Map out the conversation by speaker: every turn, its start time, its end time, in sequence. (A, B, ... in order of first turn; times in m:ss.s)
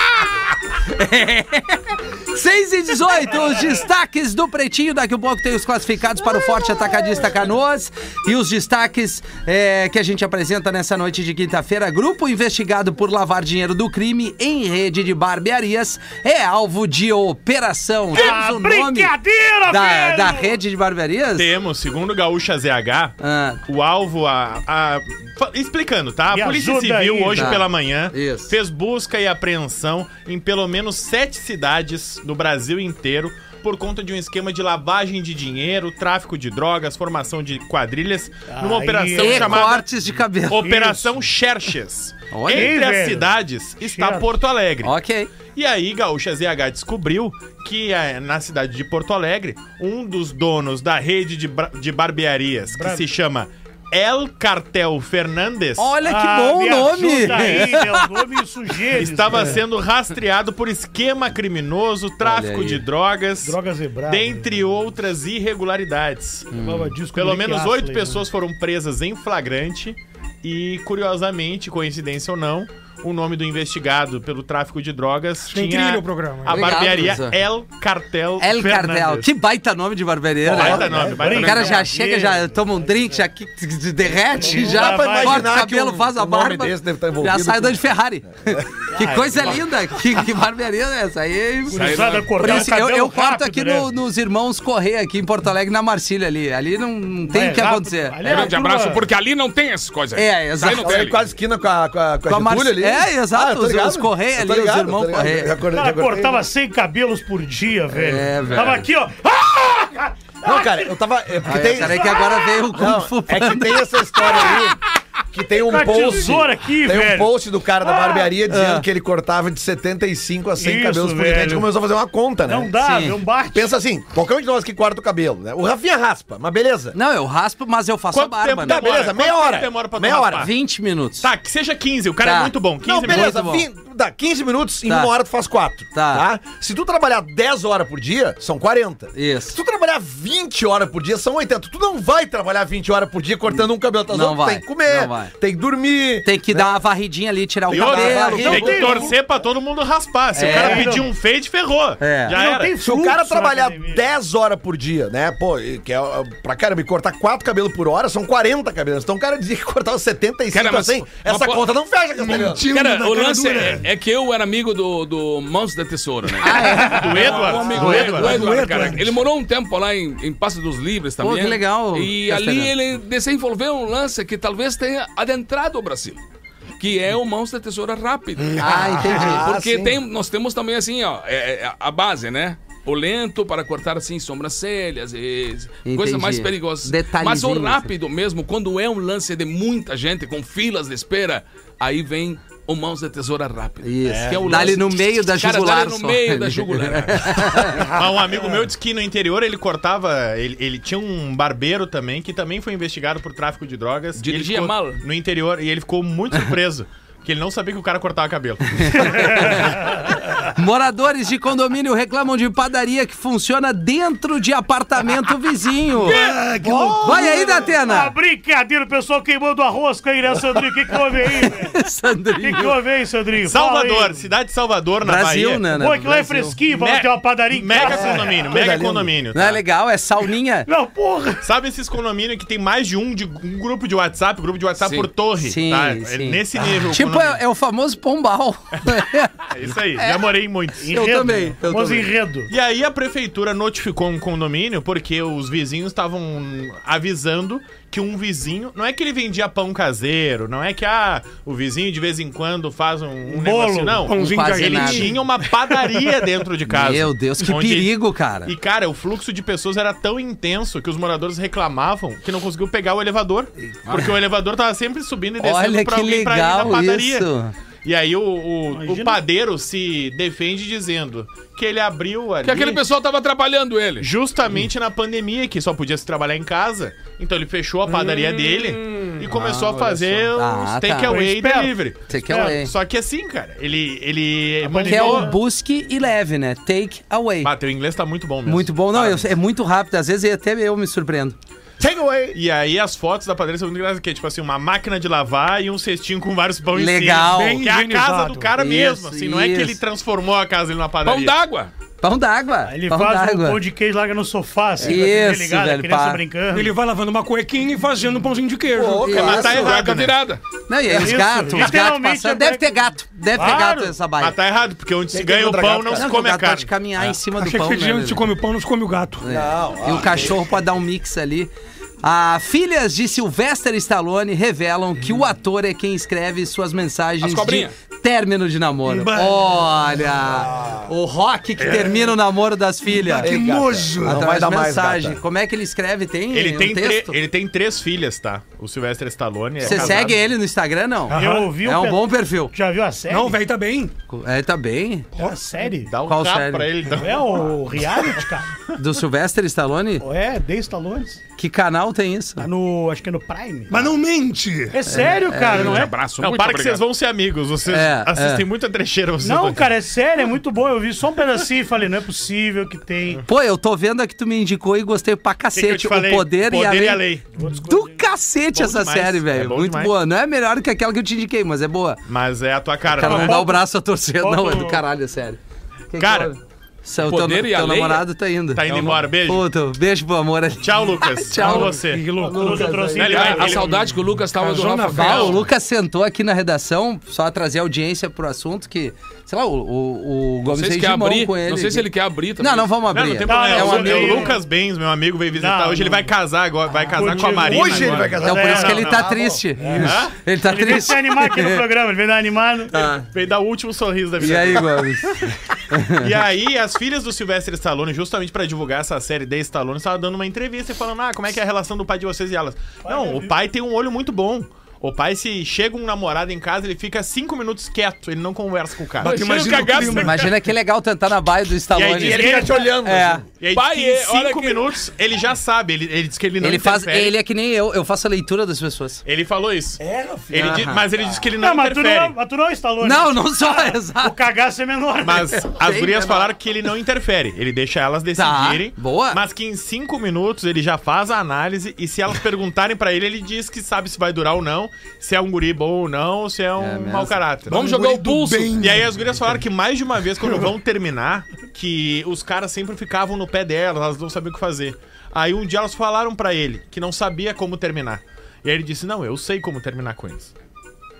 0:00.9-0:19.1 A
0:18.1-0:20.6 B
0:19.7-0:21.5 A
0:21.3-0:39.8 C
0:23.2-0:23.6 A
0:26.3-0:27.6 B
0:27.3-0:28.5 A
0:38.5-0:39.7 B
0:39.2-0:40.8 A
0:40.5-0:44.9 C
0:40.6-0:41.1 B
0:42.3-0:42.8 A
0:42.5-0:44.3 B
0:44.8-0:45.3 A
0:45.5-0:55.9 C
0:52.7-0:53.1 B
0:55.8-0:58.2 A
0:56.0-0:59.6 B
0:58.9-1:06.5 C
1:02.2-1:02.8 A
1:03.4-1:04.5 B
1:06.5-1:07.0 A
1:06.6-1:08.2 B
1:07.1-1:19.3 C
1:15.5-1:16.8 D
1:16.5-1:17.4 A
1:18.4-1:38.5 A
1:20.5-1:21.8 C
1:20.6-1:21.2 E
1:20.6-1:22.5 B
1:24.3-1:25.5 B
1:24.4-1:28.7 E
1:28.9-1:29.6 B
1:31.7-1:33.9 B
1:31.7-1:32.6 F
1:37.3-1:39.0 B
1:38.2-1:41.2 F
1:40.1-1:40.9 A
1:40.6-1:46.4 E
1:42.3-1:45.5 A
1:45.7-1:50.9 B
1:47.9-1:48.8 A
1:50.4-1:52.2 E
1:51.4-1:53.9 A
1:51.8-1:52.5 B
1:52.7-1:54.8 E
1:55.3-2:02.7 E
1:55.6-1:58.3 B
1:58.5-1:58.8 A
2:00.6-2:01.7 B
2:02.4-2:03.7 B
2:02.8-2:03.2 A
2:03.5-2:07.0 E
2:06.9-2:08.8 A
2:08.1-2:10.5 C
2:08.6-2:10.5 E
2:10.3-2:11.3 A
2:11.2-2:13.3 C
2:12.2-2:13.6 A
2:12.8-2:26.7 E
2:15.9-2:16.2 A
2:19.1-2:19.6 A
2:24.1-2:25.3 A
2:26.2-2:29.0 A
2:27.7-2:29.1 E
2:27.7-2:32.8 C
2:28.2-2:29.1 B
2:30.3-2:30.9 A
2:30.4-2:31.1 B
2:32.0-2:32.4 A
2:32.3-2:34.0 B
2:32.8-2:42.6 E
2:40.5-2:41.7 F
2:42.2-2:43.8 D
2:42.7-2:56.2 F
2:46.4-2:48.1 A
2:46.8-2:48.4 C
2:46.8-2:49.2 D
2:51.2-2:52.7 A
2:56.8-3:17.9 F
2:58.6-2:59.5 A
2:59.0-3:00.0 E
3:05.8-3:07.9 A
3:13.8-3:17.9 A
3:14.2-3:14.6 E
3:17.8-3:30.0 C
3:24.2-3:25.0 F
3:28.8-3:29.8 A
3:29.1-3:29.8 B
3:30.5-3:36.2 A
3:36.0-3:41.8 B
3:36.0-3:37.6 D
3:37.0-3:38.1 A
3:41.4-3:42.8 A
3:42.4-3:44.2 B
3:43.4-3:45.7 C
3:45.0-3:46.6 A
3:45.7-3:48.5 B
3:46.7-3:49.6 C
3:47.8-3:49.1 E
3:49.3-3:50.7 A
3:50.6-3:51.4 B
3:51.4-3:57.4 C
3:54.8-3:55.0 F
3:55.4-4:00.3 A
3:59.4-4:00.9 C
4:00.8-4:02.5 B
4:00.8-4:02.1 A
4:02.5-4:27.3 C
4:13.3-4:14.0 B
4:14.0-4:15.2 D
4:14.1-4:15.1 A
4:16.7-4:18.5 A
4:23.9-4:24.2 F
4:25.4-4:27.5 A
4:27.8-4:32.8 C
4:28.7-4:29.2 B
4:32.4-4:34.1 F
4:34.0-4:45.3 C
4:37.9-4:38.7 D
4:39.3-4:41.2 A
4:41.0-4:41.7 B
4:42.1-4:42.7 A
4:42.2-4:42.6 B
4:44.6-4:45.4 B
4:44.8-4:47.5 A
4:47.4-4:49.3 C
4:48.4-4:51.4 A
4:51.8-4:52.4 E
4:52.3-5:01.4 C
4:56.7-4:57.6 A
4:57.3-4:58.5 D
4:58.6-4:59.8 A
5:01.0-5:01.7 F
5:02.0-5:03.6 A
5:02.6-5:06.7 B
5:04.8-5:06.2 A
5:06.5-5:09.1 D
5:08.7-5:09.7 E
5:09.0-5:09.7 A
5:09.0-5:10.2 C
5:09.4-5:10.4 F
5:10.7-5:14.4 A
5:10.9-5:13.9 B
5:13.3-5:16.7 C
5:15.1-5:16.1 E
5:15.9-5:18.2 A
5:17.4-5:19.2 D
5:19.2-5:21.5 A
5:19.2-5:20.4 E
5:22.0-5:33.3 A
5:27.2-5:27.7 F
5:28.8-5:29.5 D
5:30.5-5:30.8 E
5:31.7-5:32.1 D
5:32.9-5:34.2 D
5:33.2-5:35.2 E
5:34.0-5:37.1 A
5:36.3-5:40.2 C
5:39.6-5:42.5 A
5:41.1-5:41.6 D
5:41.1-5:43.4 B
5:43.1-5:43.9 D
5:44.1-5:45.1 A
5:45.2-5:45.5 D
5:45.2-5:45.9 B
5:45.8-5:48.1 C
5:46.0-5:46.7 A
5:46.9-5:48.5 B
5:48.8-5:50.0 A
5:50.0-5:51.2 B
5:51.4-5:52.5 A
5:52.4-5:53.9 B
5:53.7-5:54.9 D
5:54.7-5:56.0 B
5:54.9-5:55.9 A
5:55.4-5:56.8 F
5:56.2-5:59.7 C
5:57.6-5:58.4 A
5:59.2-6:03.2 B
6:03.3-6:07.0 A
6:05.5-6:07.4 C
6:07.4-6:08.0 B
6:07.6-6:12.0 A
6:08.5-6:10.0 C
6:12.1-6:13.4 C
6:13.0-6:15.4 A
6:13.0-6:13.6 B
6:14.2-6:14.8 B
6:15.9-6:23.4 A
6:16.0-6:16.3 C
6:17.0-6:18.0 F
6:18.5-6:19.4 C
6:20.6-6:22.1 C
6:21.4-6:23.0 D
6:22.2-6:23.7 B
6:23.0-6:23.8 C
6:23.0-6:25.4 F
6:24.3-6:25.4 D
6:24.9-6:31.9 A
6:25.0-6:25.3 C
6:30.5-6:32.7 F
6:32.4-6:34.3 A
6:32.9-6:39.1 C
6:33.2-6:34.4 B
6:35.3-6:36.1 B
6:36.9-6:38.8 B
6:37.0-6:39.8 E
6:38.2-6:41.6 A
6:39.8-6:40.2 C
6:40.4-6:42.8 B
6:42.7-6:43.0 A
6:43.0-6:44.9 C
6:44.2-6:46.1 A
6:46.0-6:59.9 C
6:52.8-6:53.3 B
6:59.0-7:00.4 D
6:59.0-7:00.3 F
7:00.0-7:03.2 A
7:01.7-7:02.6 C
7:02.0-7:03.2 E
7:02.1-7:02.5 B
7:03.4-7:07.1 C
7:03.5-7:04.7 F
7:06.4-7:09.0 A
7:09.0-7:12.1 C
7:09.8-7:11.3 E
7:10.4-7:10.8 A
7:11.4-7:15.4 B
7:12.8-7:14.1 A
7:15.0-7:27.6 C
7:15.4-7:16.3 A
7:18.2-7:19.2 A
7:26.6-7:27.2 A
7:27.5-7:29.1 D
7:27.5-7:28.8 F
7:28.6-7:40.3 C